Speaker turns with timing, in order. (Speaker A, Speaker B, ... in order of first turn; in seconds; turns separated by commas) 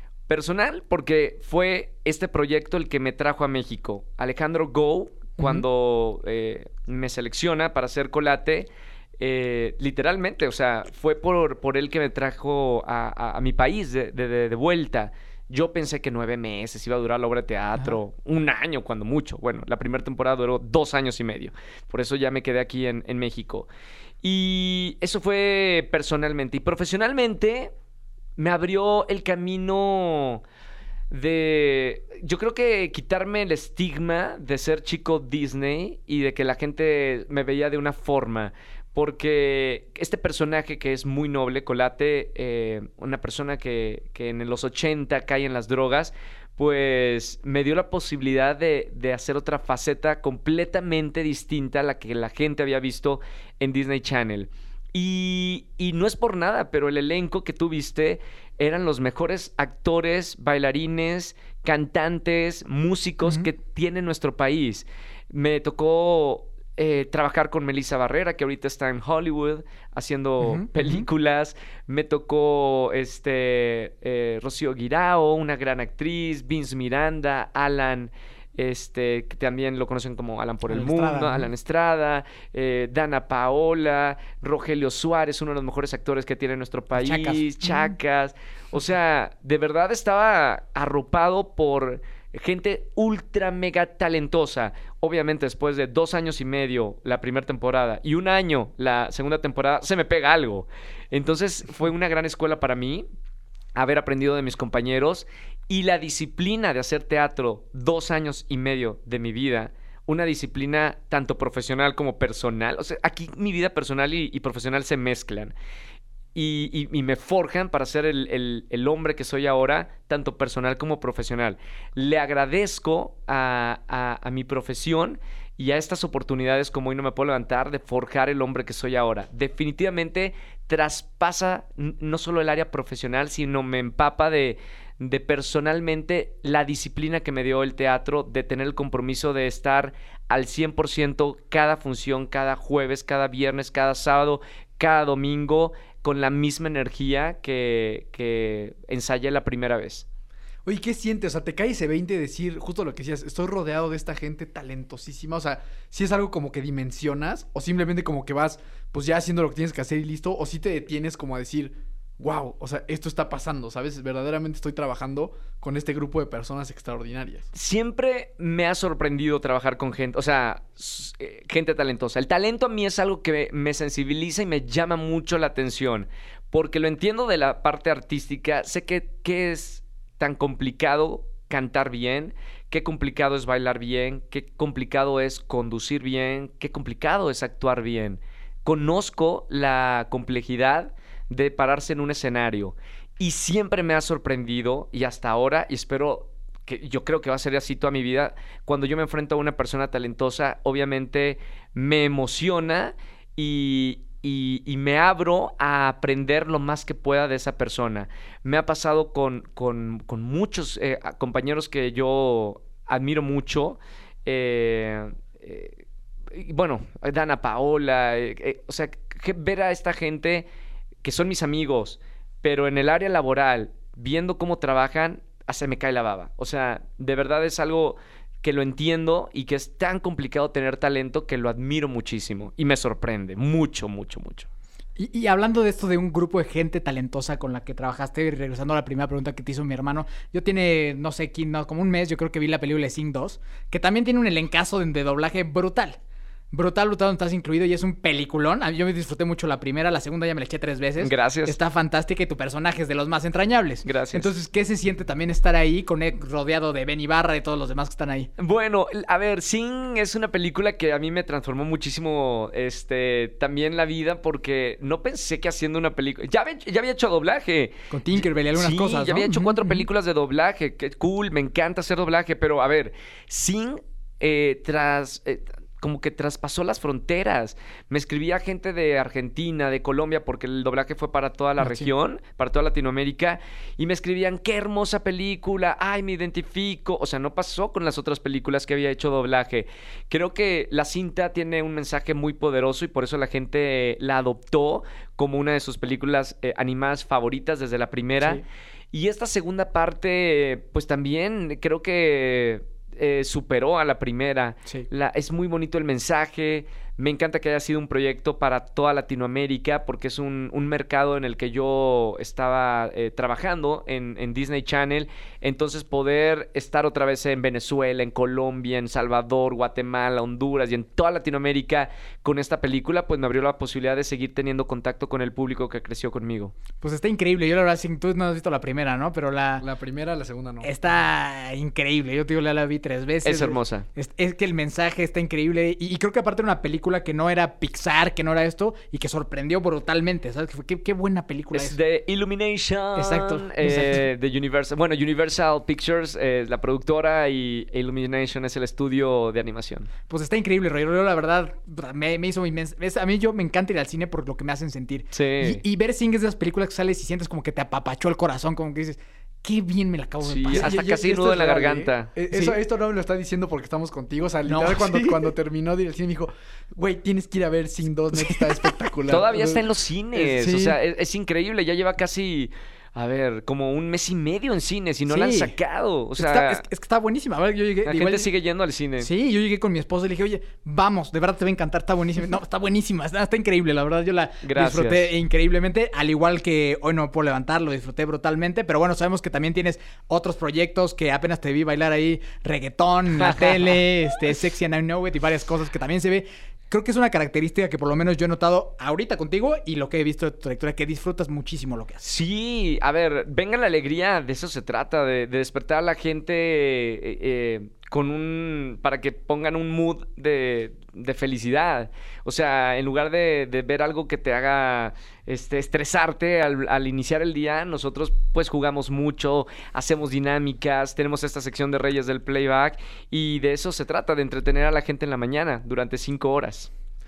Speaker A: 0.3-8.7, Speaker A: 9.2-23.7, Speaker A: 24.2-27.7, Speaker A: 28.4-30.4, Speaker A: 31.1-103.1, Speaker B: 70.4-71.1, Speaker B: 80.7-81.5, Speaker B: 87.0-88.0, Speaker A: 103.8-115.5, Speaker A: 116.3-150.1, Speaker C: 150.7-167.5, Speaker A: 167.5-220.5, Speaker A: 221.0-234.5, Speaker B: 235.0-246.0, Speaker B: 246.5-258.3, Speaker A: 251.0-251.6, Speaker A: 253.8-254.3, Speaker A: 258.4-298.4, Speaker B: 267.9-269.9, Speaker B: 281.6-281.9, Speaker A: 298.9-326.6, Speaker B: 326.8-329.7, Speaker C: 329.6-330.7, Speaker B: 330.6-341.8, Speaker A: 333.2-333.9, Speaker A: 341.5-349.9, Speaker B: 343.0-344.1, Speaker B: 350.1-360.8, Speaker A: 355.1-355.6, Speaker A: 360.2-362.1, Speaker C: 360.5-369.7, Speaker B: 362.3-362.6, Speaker B: 364.4-365.3, Speaker B: 368.1-368.8, Speaker A: 369.1-376.6, Speaker B: 370.2-370.8, Speaker B: 375.1-375.5, Speaker B: 376.2-378.3, Speaker A: 377.9-379.1, Speaker B: 379.0-402.0, Speaker A: 384.4-385.1, Speaker A: 393.2-393.8, Speaker A: 402.0-426.7